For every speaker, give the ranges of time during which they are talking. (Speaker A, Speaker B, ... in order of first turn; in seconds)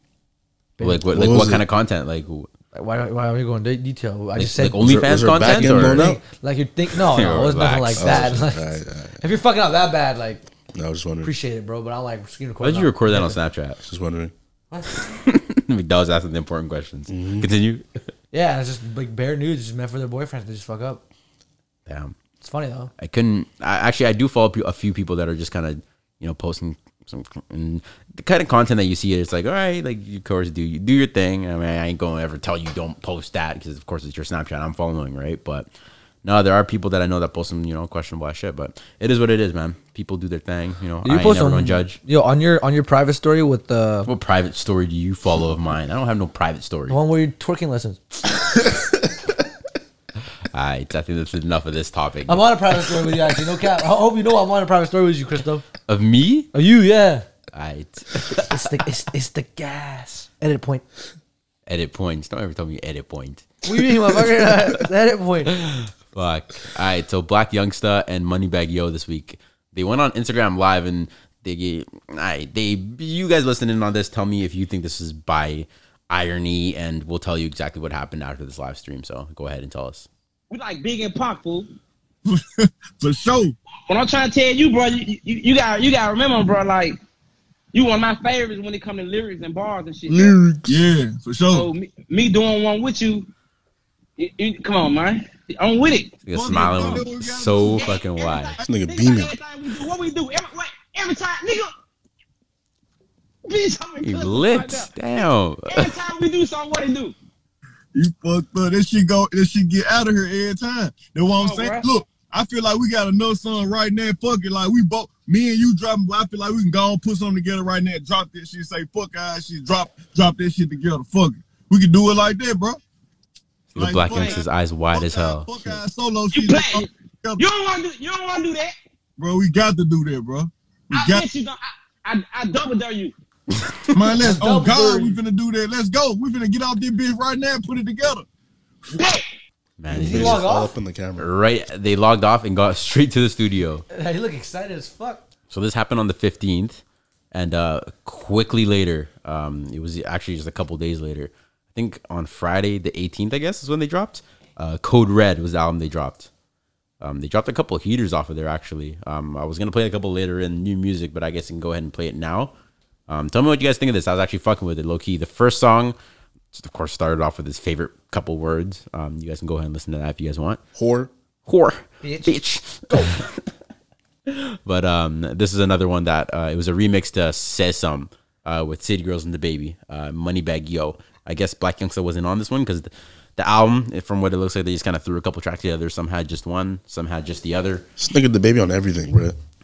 Speaker A: 0.8-2.5, 4.3-6.1, 7.0-8.3, 12.6-13.8, 14.9-18.0, 21.9-22.1, 23.0-35.7, 36.2-42.0, 44.0-47.0, 50.5-52.6, 55.9-56.5, 57.5-58.7, 61.7-63.6, 65.5-80.1, 96.2-98.6, 104.0-106.0, 123.7-125.8, 139.8-140.5, 141.2-143.8, 145.5-146.8, 147.3-156.3, 157.0-162.5, 163.1-165.9, 166.5-170.6, 171.5-173.3, 174.3-187.8
Speaker B: 1.1-1.6, 4.8-6.2, 8.0-9.2, 10.7-11.3, 13.8-14.3, 17.1-17.5, 98.6-99.3, 139.9-141.3, 170.7-171.1, 188.0-189.4
Speaker C: 2.7-4.8, 5.6-8.7, 9.2-10.4, 11.2-13.4, 18.3-21.0, 22.4-22.9, 41.0-44.1, 46.9-48.0, 52.3-55.6, 56.5-57.2, 58.3-60.8, 63.6-65.5, 134.2-135.2, 139.9-140.7, 143.9-145.2, 172.0-172.4
Speaker D: 80.5-81.7, 83.9-87.0, 87.7-90.4, 91.5-93.3, 94.2-96.2, 96.7-97.0, 97.7-101.7, 103.5-107.1, 111.3-111.9, 124.0-124.4, 126.3-128.7, 130.9-133.1, 138.9-139.2
Speaker E: 82.3-83.5, 90.1-91.7, 96.3-97.8, 107.9-122.8, 123.8-127.4, 129.2-131.2, 133.9-138.2